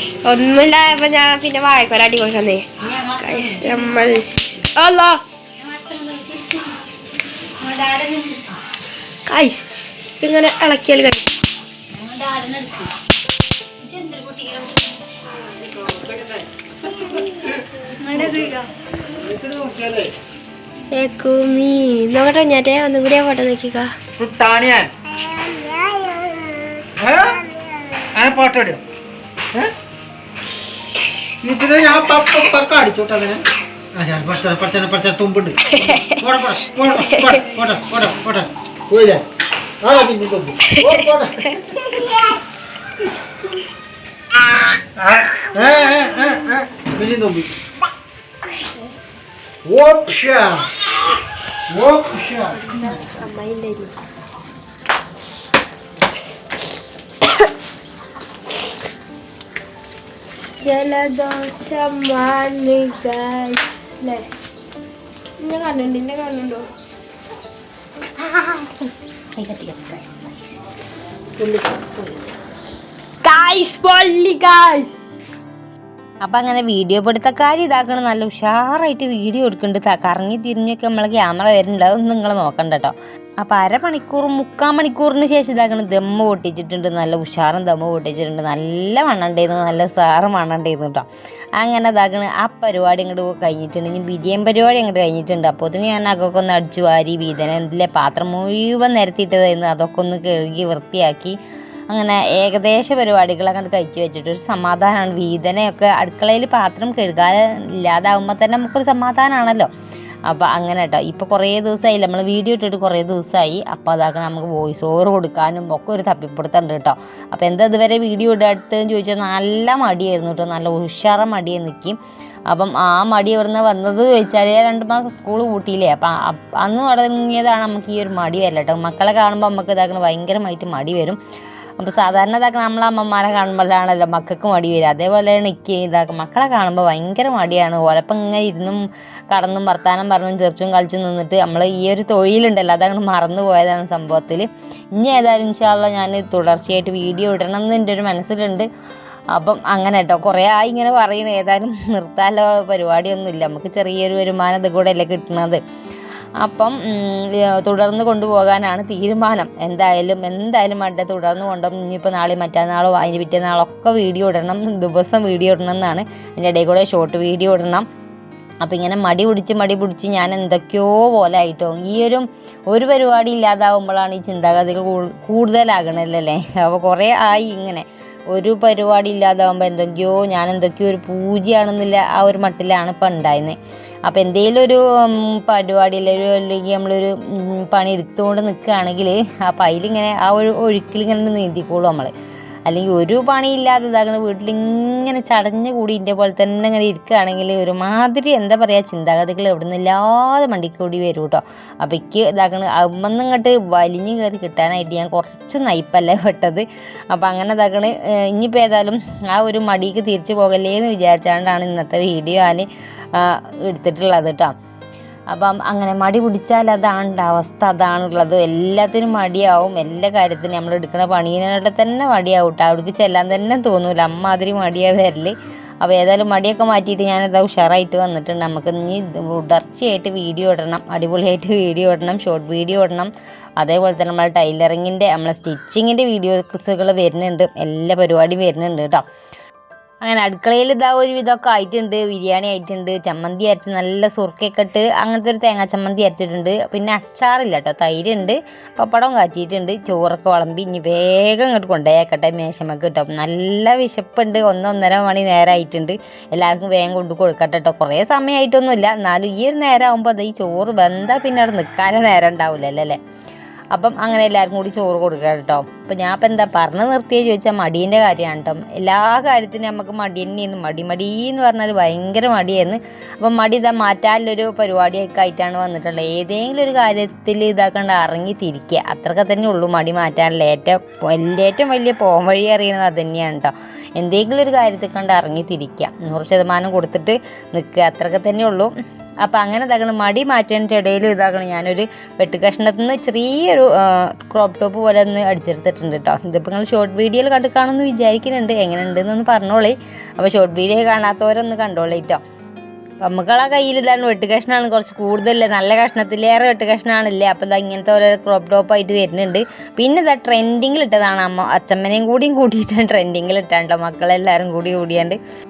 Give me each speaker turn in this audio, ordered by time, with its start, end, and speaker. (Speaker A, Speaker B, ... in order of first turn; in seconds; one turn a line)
Speaker A: 0.2-2.7
Speaker B: 2.8-4.6
Speaker A: 3.2-5.2
Speaker B: 5.6-6.8
Speaker B: 7.6-8.5
Speaker A: 9.3-9.6
Speaker A: 10.2-11.4
Speaker B: 11.9-12.9
Speaker B: 13.8-14.9
Speaker C: 15.7-18.5
Speaker B: 18.0-18.7
Speaker A: 18.3-18.6
Speaker C: 19.1-20.1
Speaker A: 20.9-23.9
Speaker C: 24.2-24.9
Speaker A: 25.2-26.5
Speaker C: 27.0-27.4
Speaker C: 28.1-28.8
Speaker C: 31.4-33.4
Speaker C: 33.9-39.2
Speaker A: 35.8-36.2
Speaker A: 37.1-37.4
Speaker C: 39.8-42.2
Speaker A: 40.7-40.9
Speaker C: 45.0-47.5
Speaker C: 49.6-50.7
Speaker C: 51.7-52.6
Speaker A: 52.5-53.9
Speaker A: 60.6-64.3
Speaker A: 65.4-66.7
Speaker B: 68.2-68.7
Speaker B: 69.4-70.5
Speaker C: 71.4-71.9
Speaker A: 73.2-75.0
Speaker B: 76.2-91.1
Speaker B: 91.6-101.4
Speaker B: 101.9-109.7
Speaker B: 110.3-122.0
Speaker B: 122.5-131.2
Speaker B: 131.8-148.7
Speaker B: 149.3-155.6
Speaker B: 156.4-167.9
Speaker B: 168.6-192.1
Speaker B: 192.7-214.5
Speaker B: 215.3-239.0
Speaker B: 240.0-263.0
Speaker B: 263.7-288.7
Speaker B: 289.2-302.2
Speaker B: 303.0-315.2